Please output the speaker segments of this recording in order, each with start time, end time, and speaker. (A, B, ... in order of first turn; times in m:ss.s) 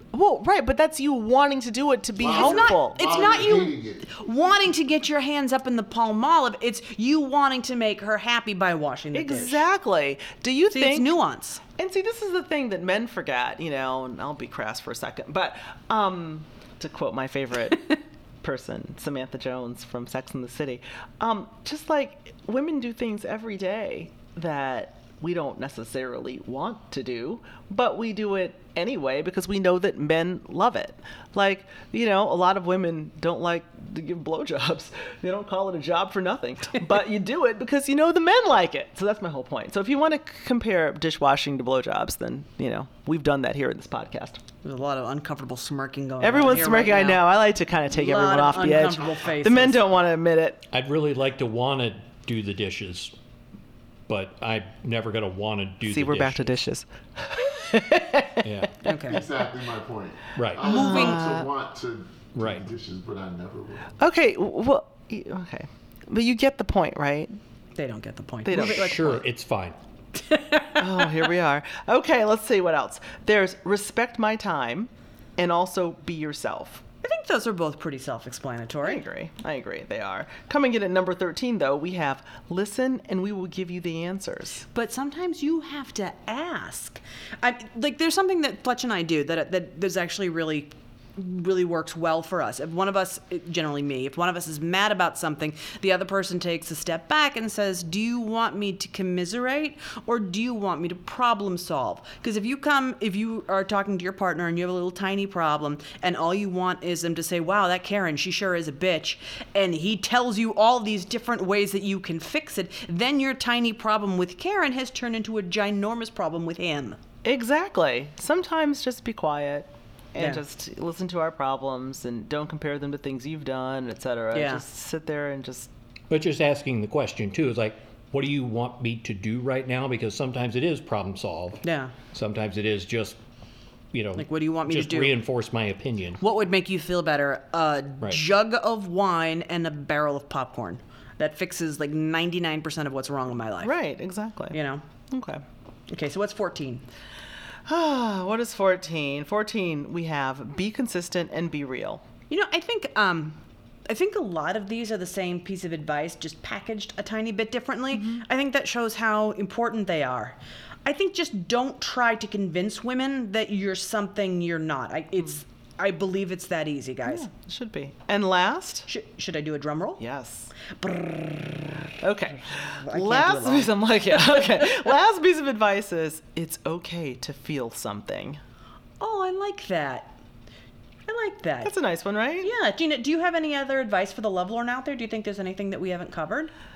0:00.1-0:03.7 A
0:02.2-0:04.2 B
0:02.3-0:09.6 C
0:09.1-0:11.2 A
0:10.7-0:11.6 C
0:11.8-0:44.4 A
0:44.6-0:47.2 C
0:46.2-0:50.6 A
0:47.9-0:49.9 C
0:50.7-0:53.1 D
0:54.1-0:56.6 D
0:55.8-0:58.5 A
0:58.4-0:58.8 D
0:58.8-0:59.2 C
0:59.1-1:04.0 B
1:00.4-1:00.8 D
1:00.6-1:01.5 A
1:02.4-1:02.7 D
1:04.0-1:07.3 A
1:07.8-1:09.2 C
1:08.4-1:09.2 A
1:08.5-1:09.8 D
1:10.1-1:11.2 C
1:10.8-1:16.8 A
1:17.0-1:19.0 C
1:18.8-1:24.6 A
1:24.7-1:57.0 C
1:57.2-2:05.7 A
2:00.2-2:00.4 C
2:04.3-2:04.6 C
2:06.1-2:13.2 D
2:11.6-2:12.0 C
2:13.9-2:16.2 D
2:14.2-2:15.2 C
2:16.2-2:23.7 C
2:23.6-2:24.6 A
2:24.5-2:24.8 C
2:25.1-2:25.4 A
2:25.9-2:26.8 C
2:27.7-2:32.0 A
2:32.3-2:47.3 C
2:37.9-2:38.2 A
2:47.0-2:48.9 A
2:48.9-2:50.0 C
2:50.0-2:50.5 A
2:50.7-2:51.8 C
2:52.0-2:58.4 A
2:52.4-2:54.7 C
2:59.0-3:00.2 C
3:01.1-3:01.7 C
3:01.6-3:02.5 A
3:02.4-3:06.5 C